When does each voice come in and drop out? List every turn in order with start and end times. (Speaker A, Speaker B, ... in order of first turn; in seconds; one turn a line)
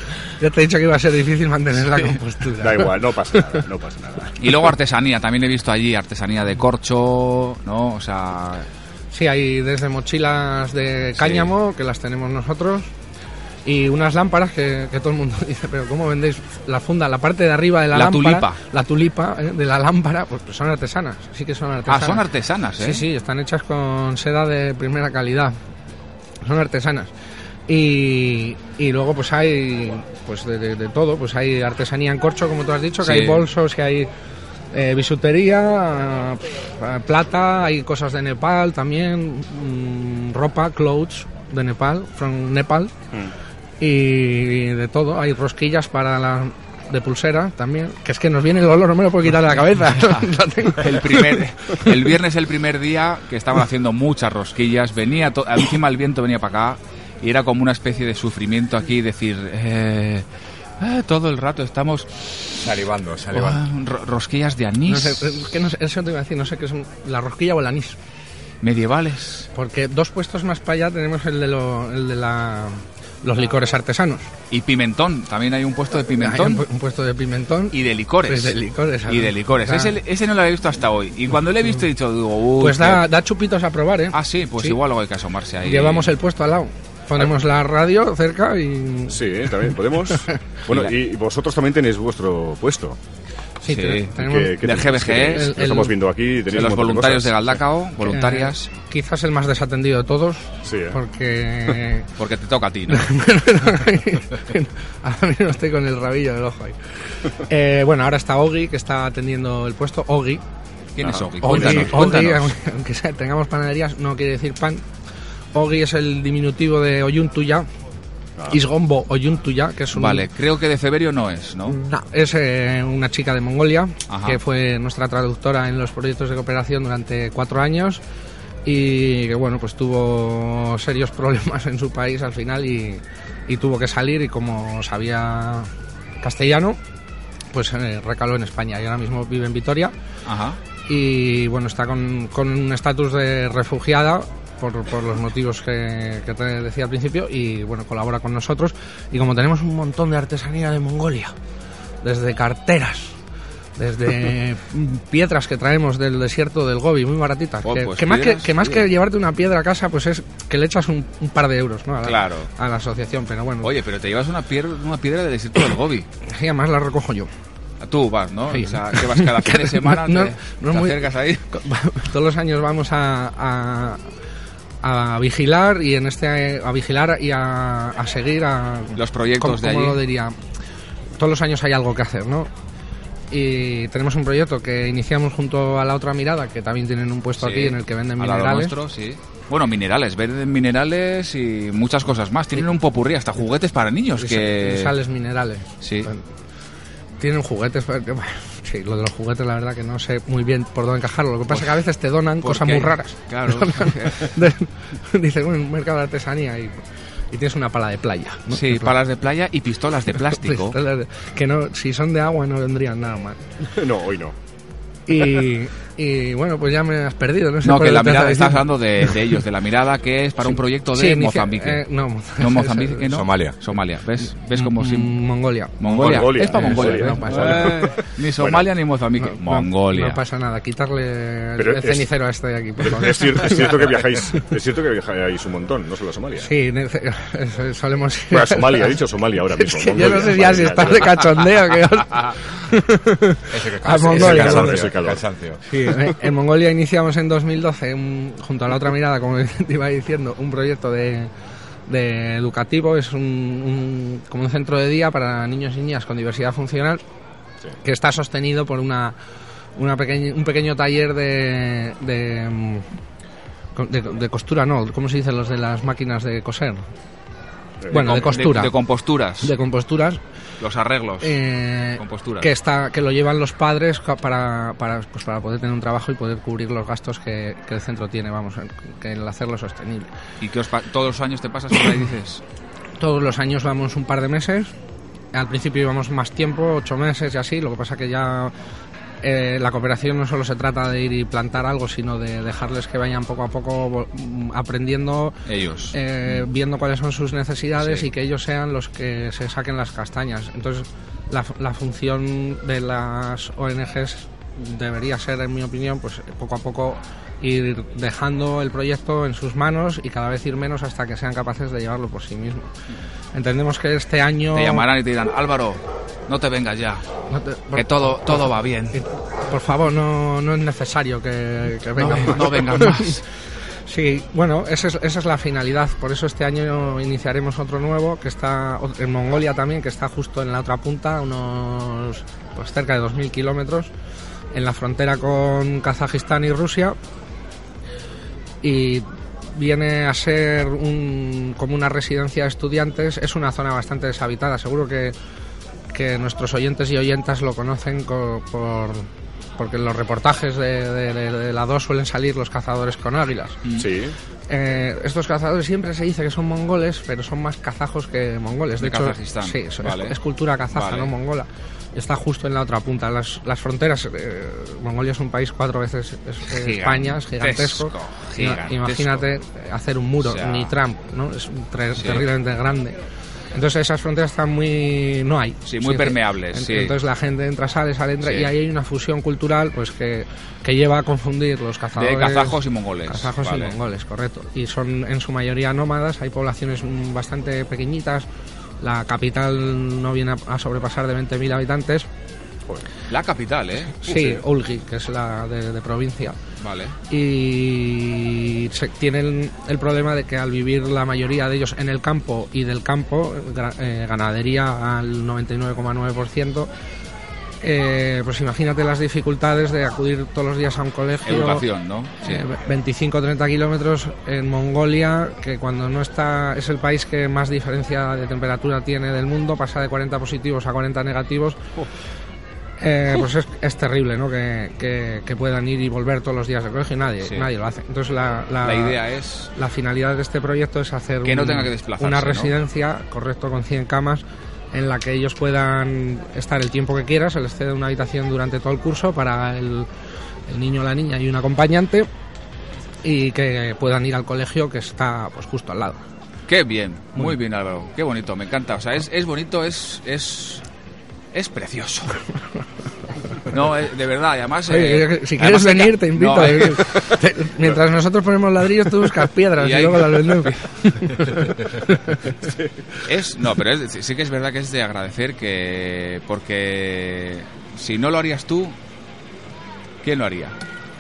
Speaker A: 0.4-3.6
Speaker B: 2.6-4.3
Speaker C: 4.4-8.7
Speaker A: 9.1-12.9
Speaker C: 11.2-11.5
Speaker A: 13.7-22.2
Speaker C: 17.9-18.6
Speaker C: 21.9-23.0
Speaker A: 22.8-25.6
Speaker A: 26.4-27.1
Speaker A: 27.7-34.1
Speaker C: 33.0-33.4
Speaker A: 34.7-42.9
Speaker A: 43.8-51.9
Speaker C: 50.0-50.2
Speaker C: 50.8-60.3
Speaker C: 60.8-62.5
Speaker D: 62.6-63.6
Speaker C: 63.3-65.5
Speaker A: 64.9-68.0
Speaker C: 68.6-69.5
Speaker A: 69.5-74.3
Speaker C: 74.5-76.6
Speaker A: 76.2-80.0
Speaker C: 77.7-78.5
Speaker C: 79.1-83.0
Speaker A: 82.6-84.8
Speaker C: 84.1-86.1
Speaker A: 85.6-90.3
Speaker B: 89.1-93.0
Speaker A: 93.6-94.7
Speaker C: 93.7-95.5
Speaker B: 94.2-97.6
Speaker A: 95.3-96.0
Speaker C: 96.5-98.7
Speaker A: 98.0-102.1
Speaker B: 100.7-101.0
Speaker C: 102.2-103.1
Speaker A: 102.9-106.8
Speaker A: 107.5-110.4
Speaker C: 111.0-112.5
Speaker B: 111.0-112.0
Speaker A: 111.4-114.8
Speaker A: 115.5-117.7
Speaker A: 118.5-120.3
Speaker C: 119.9-121.8
Speaker A: 121.7-128.0
Speaker C: 124.1-124.4
Speaker A: 128.7-135.7
Speaker A: 136.2-136.8
Speaker A: 137.5-139.9
Speaker C: 140.3-140.6
Speaker A: 140.9-151.3
Speaker A: 152.0-153.1
Speaker A: 153.8-163.7
Speaker C: 157.6-158.9
Speaker C: 162.0-162.5
Speaker C: 163.6-166.1
Speaker A: 166.3-167.3
Speaker C: 167.8-171.4
Speaker A: 168.5-174.0
Speaker A: 174.8-180.4
Speaker C: 179.0-180.0
Speaker A: 181.2-182.5
Speaker A: 183.3-188.7
Speaker C: 187.4-194.9
Speaker A: 194.2-196.2
Speaker C: 195.8-196.1
Speaker A: 197.2-206.8
Speaker C: 201.5-201.8
Speaker C: 202.4-204.3
Speaker A: 207.3-208.9
Speaker C: 208.5-210.8
Speaker A: 210.2-213.4
Speaker B: 213.7-214.3
Speaker A: 215.1-219.3
Speaker C: 217.6-221.8
Speaker A: 220.5-223.2
Speaker C: 222.4-225.2
Speaker D: 223.1-223.6
Speaker A: 224.6-227.9
Speaker C: 225.8-230.2
Speaker B: 225.8-228.7
Speaker A: 229.2-233.9
Speaker B: 231.6-232.1
Speaker B: 232.8-236.5
Speaker A: 236.4-239.0
Speaker B: 238.3-241.2
Speaker A: 239.5-244.9
Speaker D: 243.5-245.6
Speaker B: 244.1-245.2
Speaker A: 245.7-251.3
Speaker A: 251.9-257.0
Speaker A: 257.8-259.2
Speaker A: 259.8-262.9
Speaker A: 263.8-266.8
Speaker B: 267.9-268.3
Speaker A: 267.9-268.7
Speaker C: 267.9-269.5
Speaker A: 269.4-270.2
Speaker C: 270.6-271.4
Speaker A: 271.2-280.1
Speaker C: 272.0-272.5
Speaker C: 280.4-282.4
Speaker A: 283.0-284.7
Speaker A: 285.3-288.5
Speaker A: 289.2-295.4
Speaker C: 295.5-296.4
Speaker A: 295.9-312.7
Speaker C: 297.8-298.1
Speaker A: 313.3-314.9
Speaker C: 314.5-317.0
Speaker A: 317.3-323.2
Speaker C: 317.7-319.0
Speaker C: 322.0-323.2
Speaker A: 323.9-333.9
Speaker A: 334.5-337.0
Speaker A: 338.6-345.1
Speaker A: 345.9-349.1
Speaker A: 349.6-353.6
Speaker B: 353.8-354.1
Speaker A: 354.5-373.0
Speaker C: 358.8-360.2
Speaker C: 360.7-361.1
Speaker C: 366.5-369.2
Speaker C: 370.2-370.7
Speaker C: 371.9-372.3
Speaker A: 373.5-388.3
Speaker C: 375.6-376.9
Speaker C: 378.2-378.5
Speaker C: 381.9-383.8
Speaker A: 388.8-392.1
Speaker C: 393.1-394.1
Speaker A: 394.0-396.4
Speaker B: 394.1-394.4
Speaker C: 396.6-396.9
Speaker A: 397.1-406.7
Speaker A: 407.6-411.6
Speaker C: 411.2-412.4
Speaker A: 412.2-421.6
Speaker A: 422.8-429.0
Speaker C: 427.2-427.5
Speaker C: 428.6-429.5
Speaker A: 429.6-439.9
Speaker C: 431.2-432.5
Speaker A: 440.5-442.1
Speaker A: 443.0-446.0
Speaker C: 446.5-450.6
Speaker C: 451.3-452.2
Speaker C: 453.5-457.1
Speaker A: 454.7-462.3
Speaker C: 459.6-460.6
Speaker B: 462.4-462.7
Speaker C: 463.0-468.8
Speaker C: 470.0-470.6